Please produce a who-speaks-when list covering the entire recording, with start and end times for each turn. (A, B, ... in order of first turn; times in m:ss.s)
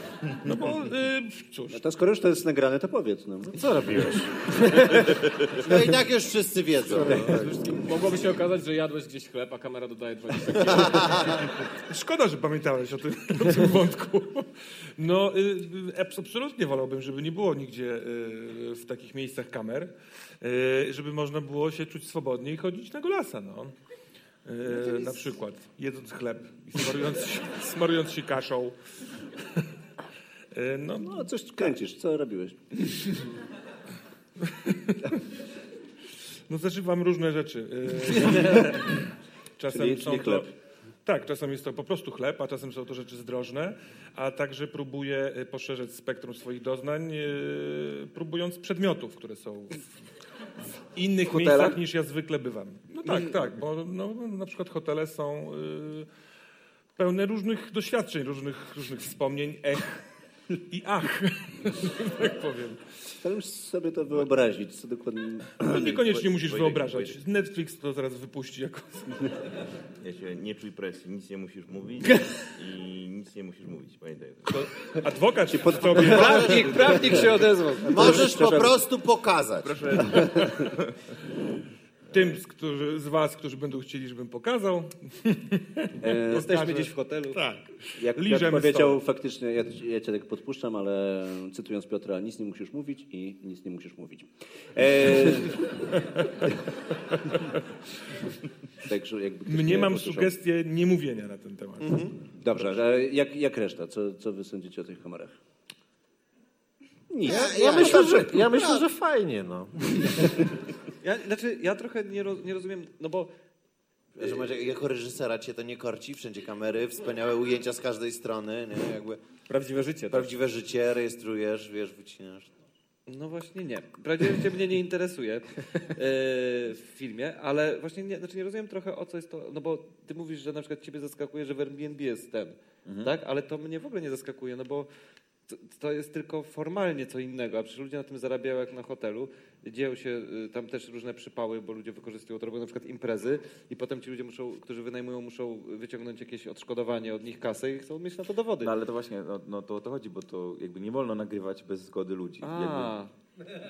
0:00.2-0:01.8 A
0:01.7-0:03.6 B
0:03.5-0:04.9 C
0:05.6-0:07.3 D
0:06.8-0:07.5 C
0:07.1-0:11.4 E
0:10.7-0:11.4 D
0:11.9-0:23.7 A
0:24.4-0:28.8 A
0:30.5-0:31.3 A
0:31.0-0:32.6 B
0:34.4-0:35.2 A
0:36.5-0:39.1 A
0:39.6-0:40.5 A
0:39.7-0:40.5 B
0:41.0-0:49.8 A
0:50.9-0:56.1 A
0:51.2-0:51.8 F
0:57.0-1:00.0 A
1:00.7-1:02.8 A
1:03.2-1:05.6 B
1:05.6-1:09.3 A
1:05.6-1:07.2 G
1:10.0-1:14.6 G
1:14.5-1:16.8 A
1:15.5-1:17.0 B
1:16.1-1:18.1 H
1:17.8-1:18.8 B
1:17.8-1:20.0 D
1:19.6-1:20.7 G
1:20.2-1:20.5 B
1:22.1-1:22.4 G
1:22.1-1:29.0 A
1:26.0-1:26.6 B
1:26.3-1:27.4 H
1:28.0-1:35.9 B
1:38.8-1:40.3 B
1:39.4-1:42.0 A
1:41.8-1:42.1 D
1:42.4-1:45.3 B
1:47.1-1:48.4 B
1:47.2-1:48.8 D
1:47.2-1:50.4 C
1:51.0-1:53.3 H
1:54.2-1:59.2 D
1:59.5-2:00.3 E
2:00.1-2:02.5 D
2:03.1-2:14.9 H
2:12.8-2:13.1 F
2:15.5-2:28.7 H
2:28.6-2:32.9 F
2:32.4-2:33.1 H